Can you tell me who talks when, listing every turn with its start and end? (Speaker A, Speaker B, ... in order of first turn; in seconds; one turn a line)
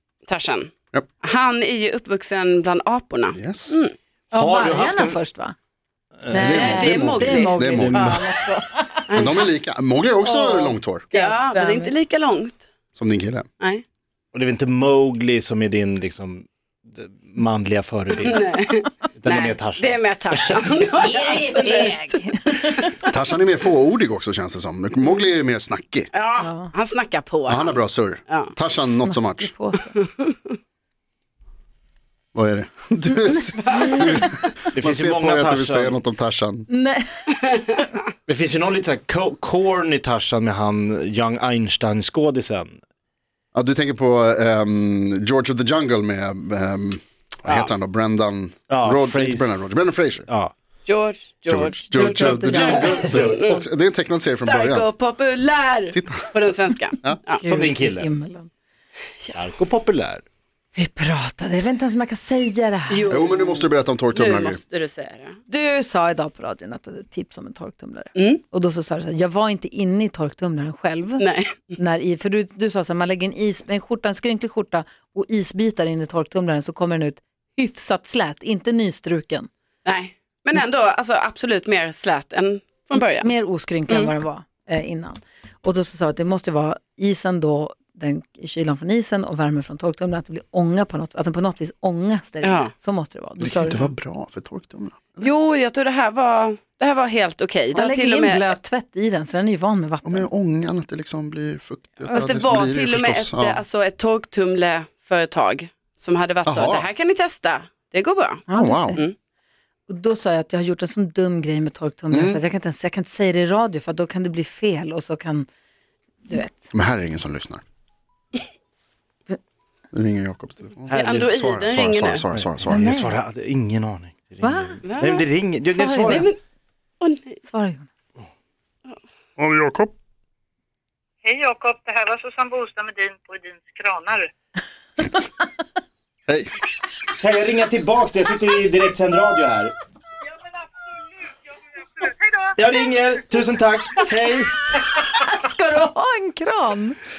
Speaker A: 0.3-3.9
Speaker B: 3.4-3.8
Speaker C: 4.3-5.5
Speaker D: 4.3-5.2
Speaker C: 6.3-9.1
Speaker B: 6.3-8.0
Speaker A: 6.4-8.2
Speaker D: 7.7-8.3
Speaker A: 9.1-9.4
Speaker B: 9.1-11.1
Speaker C: 10.2-11.9
Speaker A: 11.1-12.7
Speaker B: 12.9-13.5
Speaker D: 14.3-18.5
Speaker A: 18.2-22.9
Speaker D: 19.2-20.7
Speaker C: 21.0-23.1
Speaker B: 23.1-26.1
Speaker A: 26.1-28.5
Speaker C: 26.4-26.7
Speaker B: 27.5-29.5
Speaker C: 29.0-29.9
Speaker A: 30.0-30.5
Speaker B: 32.4-36.7
Speaker A: 33.6-34.3
Speaker D: 34.7-36.0
Speaker C: 36.7-37.6
Speaker A: 37.5-37.9
Speaker D: 38.3-42.8
Speaker B: 43.5-50.3
Speaker A: 47.5-47.7
Speaker D: 48.7-50.5
Speaker A: 50.9-53.6
Speaker B: 51.5-54.9
Speaker C: 51.9-53.1
Speaker D: 52.6-53.5
Speaker A: 54.4-57.4
Speaker B: 55.9-56.3
Speaker C: 57.4-58.5
Speaker D: 57.5-58.1
Speaker D: 59.3-60.2
Speaker C: 60.8-63.1
Speaker A: 62.9-65.4
Speaker B: 63.1-64.6
Speaker C: 65.5-71.2
Speaker A: 68.2-68.4
Speaker A: 71.2-71.8
Speaker C: 71.8-79.5
Speaker A: 79.8-83.3
Speaker C: 83.0-93.8
Speaker A: 92.4-92.7
Speaker B: 93.4-95.3
Speaker A: 95.2-98.5
Speaker C: 97.7-100.3
Speaker B: 100.0-103.6
Speaker A: 102.1-109.2
Speaker B: 106.5-106.9
Speaker C: 108.5-109.0
Speaker B: 108.5-109.0
Speaker C: 109.9-115.5
Speaker B: 112.1-112.4
Speaker C: 116.2-116.7
Speaker B: 116.7-117.6
Speaker B: 119.9-122.9
Speaker D: 120.9-121.3
Speaker A: 120.9-122.2
Speaker D: 122.3-126.3
Speaker C: 122.7-123.2
Speaker C: 124.4-124.8
Speaker A: 124.8-125.3
Speaker C: 125.7-126.3
Speaker A: 126.0-126.4
Speaker A: 127.0-127.4
Speaker C: 127.5-127.9
Speaker B: 129.4-129.9
Speaker E: 131.2-134.3
Speaker B: 136.3-136.7
Speaker D: 137.1-139.7
Speaker E: 142.0-142.4
Speaker D: 142.6-144.7
Speaker C: 145.0-147.0